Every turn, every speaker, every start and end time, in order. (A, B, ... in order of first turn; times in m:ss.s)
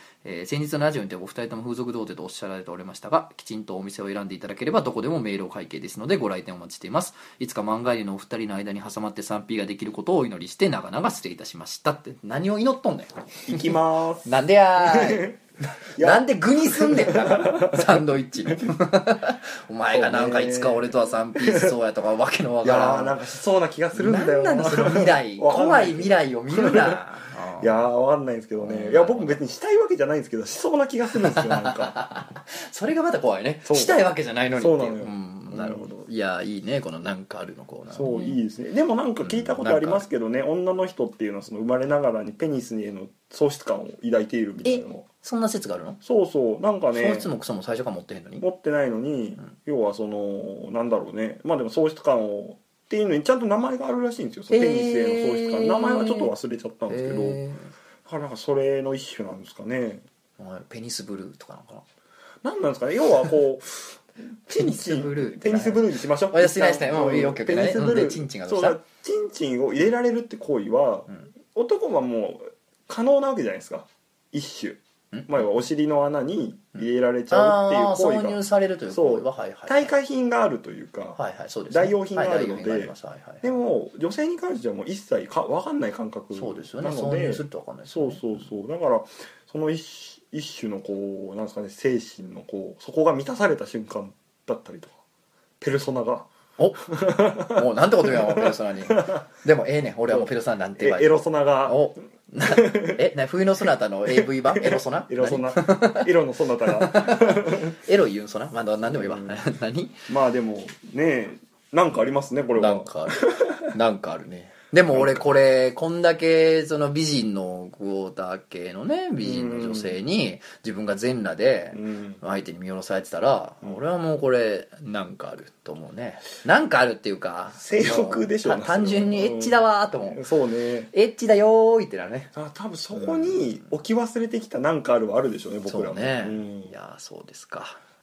0:00.2-0:23.2 A
0:13.5-0:15.4 B
0:15.9-0:18.7 B
0:19.9-0:21.8 B
0:22.6-0:27.0 B
0:24.0-0:27.8 A
0:27.6-0:32.0 B
0:28.6-0:29.4 A
0:31.3-0:38.4 A
0:33.7-0:34.0 B
0:34.6-0:35.9 B
0:37.9-0:45.1 B
0:39.2-0:40.1 A
0:44.6-0:46.0 A
0:46.0-0:47.3 B
0:46.9-0:48.4 A
0:48.4-0:57.4 B
0:54.5-0:56.3 A
0:56.9-0:57.7 A
0:58.1-1:00.0 B
1:00.4-1:01.8 A
1:02.4-1:18.4 B
1:04.5-1:08.8 A
1:16.8-1:19.9 A
1:18.9-1:21.2 B
1:21.2-1:23.5 A
1:21.7-1:35.0 B
1:26.3-1:28.4 A
1:35.6-1:36.3 B
1:36.6-1:36.8 A
1:36.8-1:39.3 B
1:37.4-1:46.1 A
1:40.1-1:41.9 B
1:42.4-1:43.0 B
1:44.1-1:47.8 B
1:46.7-1:50.1 A
1:48.9-1:49.4 B
1:50.1-1:53.7 B
1:52.6-2:10.2 A
1:54.9-1:55.2 B
1:59.2-2:00.0 B
2:01.7-2:02.2 B
2:07.6-2:10.9 B
2:10.9-2:12.3 A
2:12.3-2:16.7 B
2:13.0-2:13.4 A
2:15.7-2:17.8 A